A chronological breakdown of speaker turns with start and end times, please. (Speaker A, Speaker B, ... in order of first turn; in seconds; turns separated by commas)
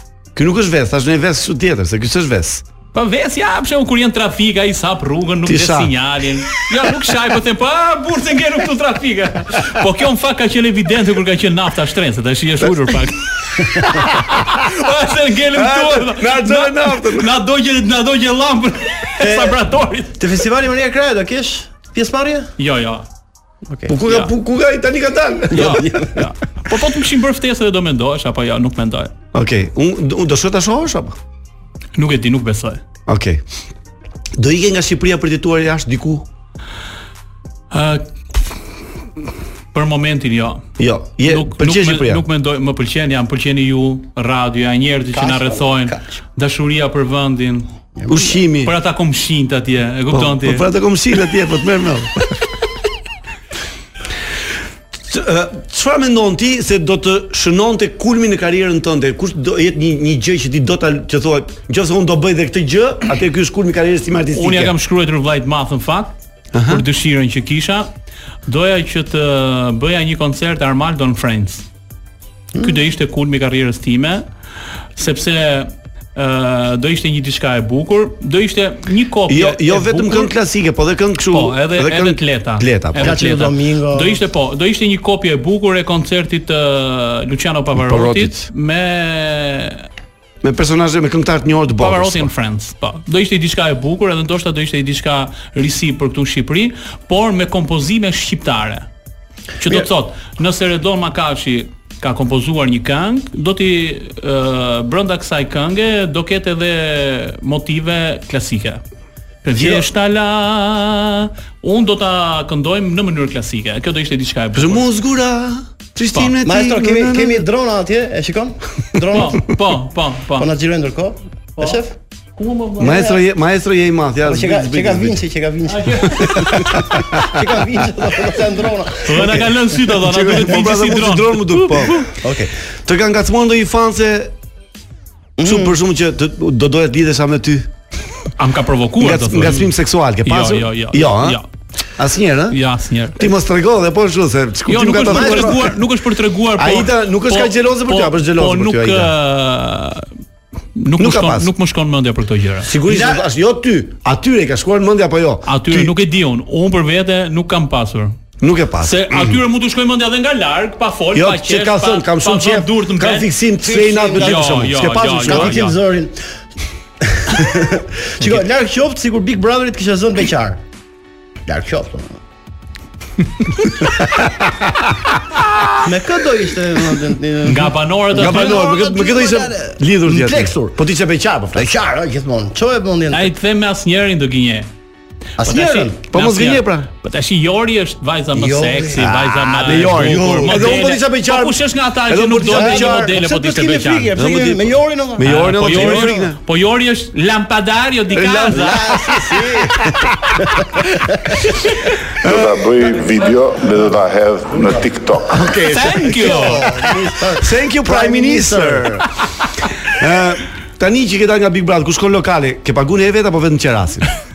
Speaker A: 0.4-2.6, Speaker B: 2.9-20.2, Speaker A: 5.5-5.9, Speaker A: 15.5-17.3, Speaker C: 20.2-22.5, Speaker B: 22.6-23.1, Speaker A: 23.9-25.9, Speaker B: 24.1-24.3, Speaker B: 25.5-29.1, Speaker C: 25.6-26.2, Speaker A: 29.3-31.2, Speaker B: 32.0-32.8, Speaker A: 33.1-33.4, Speaker A: 34.4-36.3, Speaker B: 37.7-38.6, Speaker B: 39.7-40.6, Speaker A: 40.8-42.2, Speaker B: 41.2-47.7, Speaker C: 45.1-46.2, Speaker C: 48.0-48.3, Speaker A: 48.1-48.7, Speaker B: 48.6-50.7, Speaker A: 50.1-52.3, Speaker A: 55.0-64.8, Speaker B: 64.3-66.2, Speaker A: 66.5-66.8, Speaker B: 66.7-67.9, Speaker B: 68.5-71.7, Speaker B: 72.6-74.2, Speaker B: 75.0-80.3, Speaker A: 79.3-83.2, Speaker B: 81.3-89.9, Speaker C: 83.0-84.2, Speaker A: 87.8-88.5, Speaker A: 90.4-92.3, Speaker B: 91.8-98.9, Speaker B: 99.6-108.8, Speaker B: 109.4-114.9, Speaker A: 114.5-117.4, Speaker C: 116.4-119.4, Speaker B: 119.1-120.5, Speaker C: 120.4-121.9, Speaker B: 122.4-123.2, Speaker A: 122.8-125.2, Speaker C: 124.2-129.3, Speaker B: 125.7-126.7, Speaker A: 126.2-127.7, Speaker B: 129.0-132.1, Speaker A: 129.2-132.1, Speaker C: 132.2-132.5, Speaker A: 132.9-134.3, Speaker C: 135.4-135.7, Speaker A: 135.4-137.7, Speaker B: 138.4-139.7, Speaker A: 139.0-141.4, Speaker B: 140.2-141.5, Speaker A: 142.0-142.6, Speaker B: 142.5-143.2, Speaker A: 143.2-145.8, Speaker B: 144.7-150.1, Speaker C: 145.1-145.6, Speaker A: 146.6-149.1, Speaker B: 150.8-152.7, Speaker A: 151.0-151.5, Speaker A: 152.6-155.9, Speaker C: 152.9-153.3, Speaker B: 155.5-158.2, Speaker A: 158.4-159.4, Speaker B: 158.8-165.8, Speaker A: 161.1-165.6, Speaker C: 163.6-164.7, Speaker C: 165.2-166.2, Speaker C: 167.0-170.6, Speaker C: 171.5-172.2, Speaker A: 174.4-174.9, Speaker C: 175.8-180.8, Speaker B: 177.4-178.6, Speaker A: 178.1-181.7, Speaker C: 181.5-183.3, Speaker B: 183.1-184.7, Speaker C: 185.4-186.0, Speaker B: 185.4-194.1, Speaker A: 186.1-186.9, Speaker C: 188.3-190.6, Speaker A: 189.0-193.2, Speaker C: 192.5-196.2, Speaker A: 194.2-196.4, Speaker B: 195.2-198.9, Speaker A: 198.1-200.3, Speaker C: 198.5-201.4, Speaker A: 202.2-202.7, Speaker D: 202.3-205.5, Speaker A: 205.3-206.7, Speaker B: 205.7-206.7, Speaker C: 206.0-209.1, Speaker A: 207.3-209.1, Speaker A: 209.9-214.1